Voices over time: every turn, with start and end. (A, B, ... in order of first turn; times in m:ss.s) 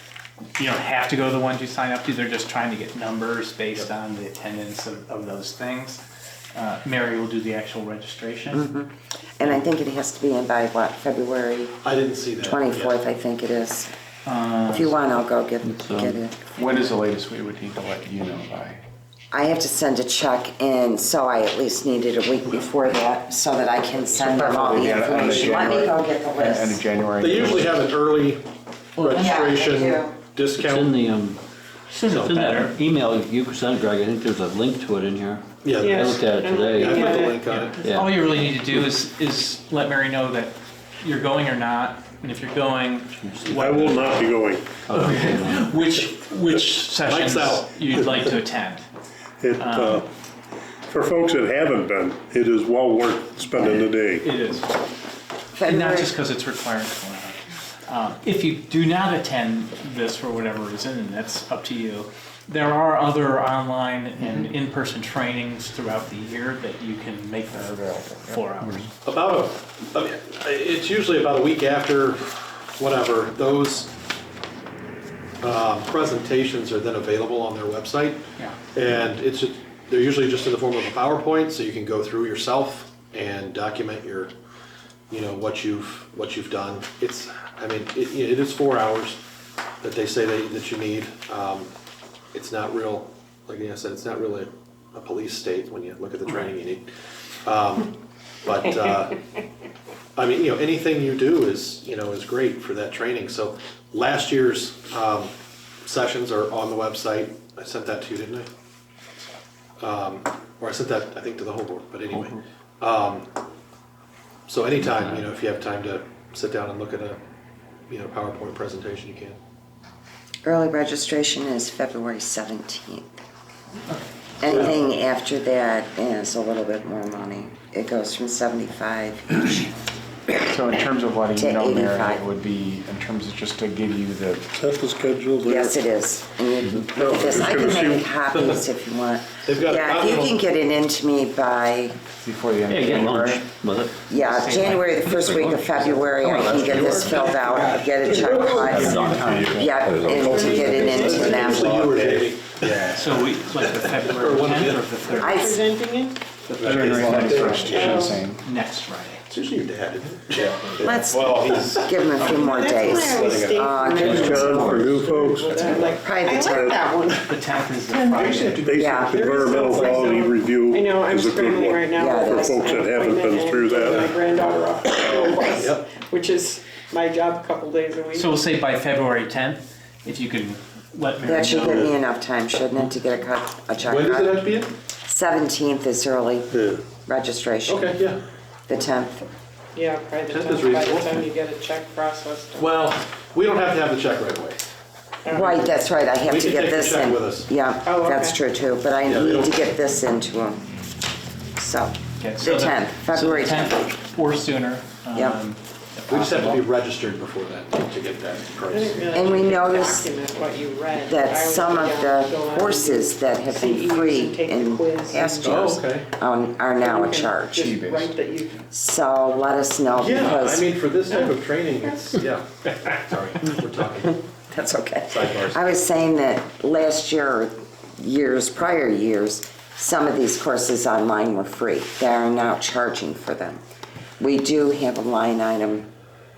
0:00.6-0:06.0 A
0:06.5-0:08.6 A
0:08.5-0:11.8 B
0:11.8-0:13.0 C
0:12.4-0:13.9 B
0:14.2-0:15.0 A
0:14.7-0:16.4 B
0:15.6-0:16.2 D
0:16.6-0:18.8 E
0:19.3-0:26.8 B
0:24.1-0:27.8 E
0:27.2-0:28.4 C
0:29.0-0:30.9 C
0:29.0-0:29.3 A
0:29.1-0:30.1 B
0:30.5-0:31.4 D
0:31.9-0:32.7 A
0:32.0-0:32.4 C
0:32.1-0:37.2 D
0:35.6-0:37.8 C
0:35.8-0:37.4 F
0:37.5-0:44.3 A
0:37.8-0:38.4 D
0:43.2-0:43.7 D
0:43.5-0:44.8 G
0:44.8-0:45.7 D
0:44.9-0:48.8 A
0:46.9-0:47.7 C
0:49.4-0:50.1 G
0:49.6-0:50.0 A
0:50.9-0:54.2 G
0:53.6-0:54.7 A
0:55.5-0:56.1 B
0:55.6-1:08.9 A
1:07.5-1:08.4 E
1:09.0-1:13.9 C
1:15.4-1:18.2 C
1:18.7-1:24.3 C
1:25.1-1:29.2 C
1:29.8-1:31.7 C
1:32.3-1:36.9 C
1:37.4-1:37.9 C
1:38.4-1:39.2 C
1:40.2-1:45.3 C
1:45.8-1:48.5 C
1:49.8-1:53.2 C
1:54.5-1:57.2 C
1:57.9-1:59.4 C
2:00.4-2:03.2 B
2:04.4-2:09.7 B
2:04.4-2:04.8 C
2:10.4-2:14.5 E
2:11.3-2:12.2 B
2:14.6-2:15.8 G
2:15.4-2:22.0 B
2:16.9-2:18.1 G
2:19.4-2:20.4 C
2:22.2-2:23.2 E
2:22.7-2:23.9 D
2:22.9-2:23.4 B
2:24.1-2:31.8 B
2:24.1-2:25.8 A
2:25.2-2:30.3 D
2:26.5-2:28.3 C
2:28.3-2:33.0 E
2:30.2-2:31.6 F
2:30.7-2:33.0 C
2:32.9-2:35.6 A
2:33.6-2:35.2 C
2:35.2-2:35.6 B
2:35.2-2:36.2 F
2:36.5-2:39.2 A
2:36.6-2:38.1 C
2:36.6-2:38.4 E
2:37.7-2:38.2 F
2:39.3-2:43.7 C
2:40.8-2:44.5 B
2:42.4-2:47.3 F
2:43.9-2:44.9 D
2:44.0-2:46.8 G
2:44.2-2:44.7 C
2:45.5-2:45.9 C
2:45.9-2:46.8 B
2:47.3-2:48.6 A
2:47.9-2:48.4 F
2:48.1-2:50.2 C
2:48.6-2:54.2 G
2:48.7-2:49.2 B
2:49.3-2:58.3 F
2:51.9-2:52.6 B
2:55.1-2:56.0 C
2:58.1-3:01.9 A
3:01.2-3:04.4 B
3:03.8-3:04.7 C
3:05.1-3:08.0 B
3:07.7-3:08.2 C
3:08.7-3:09.2 B
3:09.7-3:12.7 F
3:10.2-3:11.3 C
3:12.6-3:14.6 C
3:15.2-3:15.7 F
3:15.3-3:20.6 B
3:16.2-3:17.5 C
3:17.8-3:18.4 F
3:19.1-3:19.5 C
3:21.6-3:23.9 B
3:22.2-3:26.6 A
3:25.1-3:25.4 B
3:26.1-3:29.6 C
3:28.7-3:35.7 F
3:29.1-3:30.1 B
3:31.0-3:37.7 B
3:35.4-3:36.1 C
3:36.8-3:38.6 F
3:37.6-3:38.1 E
3:38.7-3:40.7 B
3:40.0-3:44.2 C
3:41.1-3:42.0 F
3:44.5-3:53.6 B
3:45.1-3:45.6 C
3:54.2-3:55.9 B